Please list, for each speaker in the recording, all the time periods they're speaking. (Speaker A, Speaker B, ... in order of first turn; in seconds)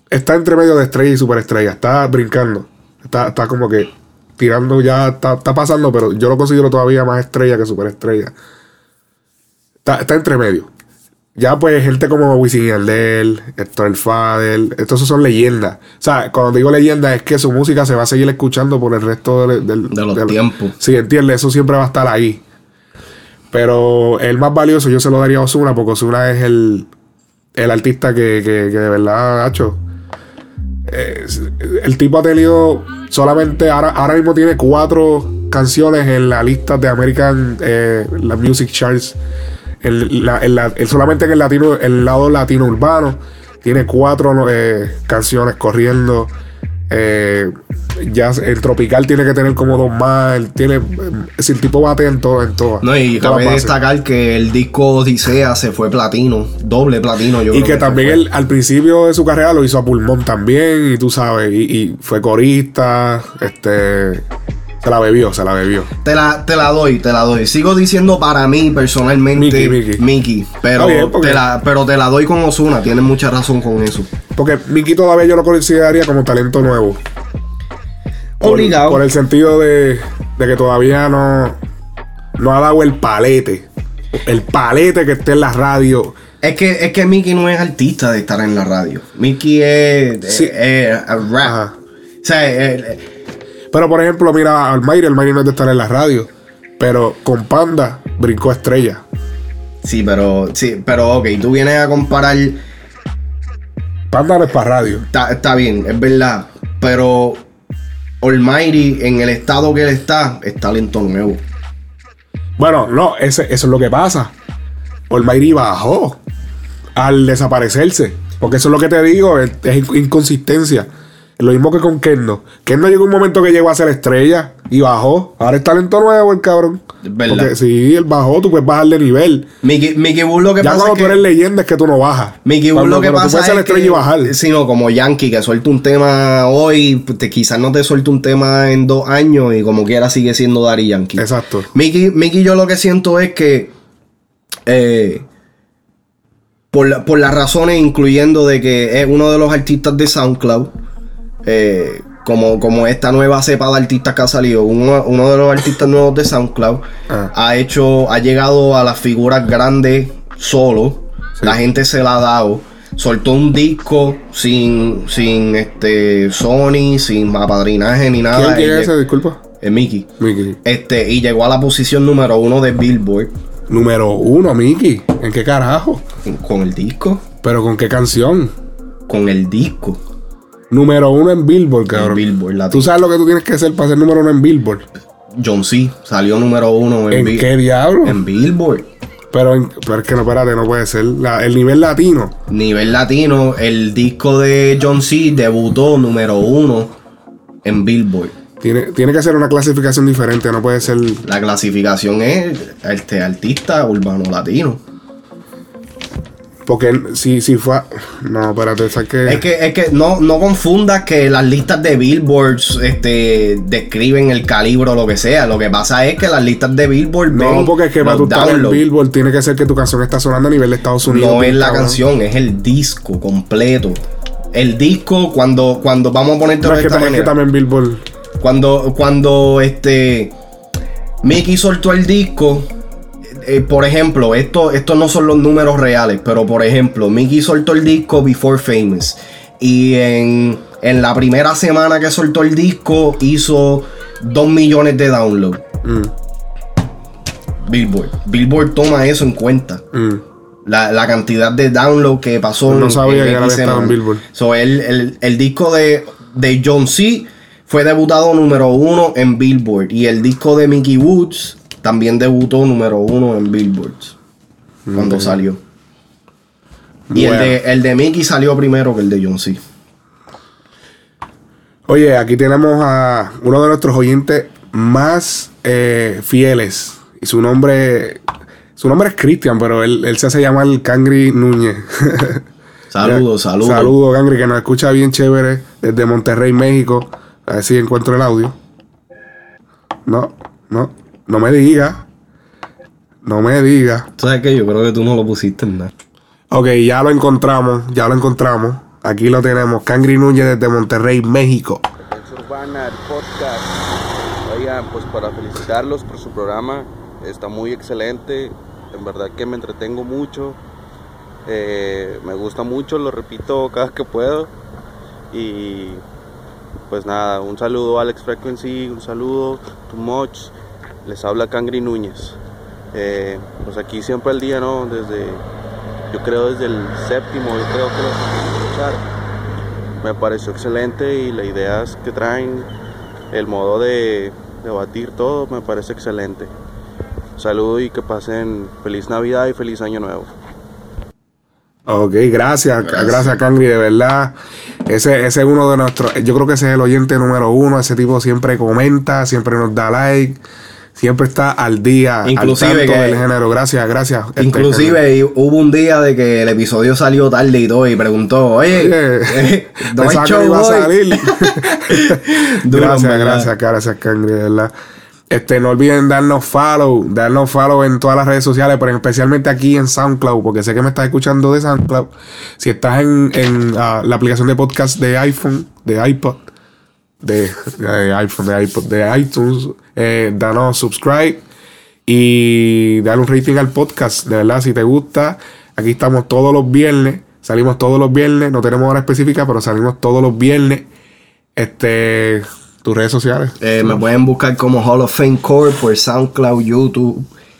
Speaker A: 0.1-8.3, 9.8-10.7, 11.4-22.4, 23.5-26.9, 27.6-29.8, 30.9-39.1, 39.8-46.3, 46.9-53.8, 57.5-64.2, 64.8-65.9, 69.3-70.0, 70.7-71.4, 74.3-77.0, 78.4-81.6, 82.4-86.1, 91.4-91.7, 93.7-96.3, 96.8-99.0, 104.1-105.0, 112.6-114.3, 115.1-116.2, 117.0-120.9, 121.4-129.5, 130.6-134.3, 141.2-141.7, 168.3-169.4, 170.2-170.6, 173.7-176.0, 177.4-178.5, 180.7-182.2, 182.7-184.8, 187.1-188.2, 189.3-192.3, 198.6-201.2, 206.7-209.4, 217.3-222.0, 226.6-228.0, 245.8-246.1, 249.9-250.2, 252.7-254.2, 264.9-265.4, 267.1-267.6, 271.9-278.2, 278.8-282.4, 283.0-288.5, 290.1-292.0, 293.2-294.1, 296.5-301.8, 341.9-344.3, 344.9-350.4, 350.9-355.0, 358.7-364.7, 365.3-376.4, 377.2-381.4, 382.1-390.9, 391.6-393.6
Speaker B: 19.9-20.8, 52.8-58.2, 66.0-74.1, 78.4-79.0, 86.4-91.6, 92.2-93.0, 99.8-102.6, 105.1-107.4, 108.2-111.4, 127.0-127.5, 129.6-131.2, 132.4-143.7, 144.7-145.2, 146.7-150.7, 151.4-168.9, 169.6-170.1, 170.6-173.3, 176.2-177.2, 179.1-180.0, 181.9-182.9, 185.3-187.5, 188.0-188.9, 192.5-196.9, 197.6-198.3, 201.2-204.8, 209.2-218.8, 221.0-224.0, 224.5-227.3, 228.4-230.3, 231.2-232.7, 233.2-245.6, 247.6-249.8, 250.7-264.1, 264.9-265.6, 267.1-269.6, 282.9-283.9, 294.2-295.9, 342.8-343.4, 352.2-353.2, 354.4-363.5, 393.6-397.3
Speaker C: 302.0-303.8, 304.4-310.6, 311.5-314.5, 315.3-316.0, 316.9-320.5, 321.0-322.4, 322.9-325.4, 326.1-329.0, 330.0-332.7, 333.3-336.5, 337.4-340.3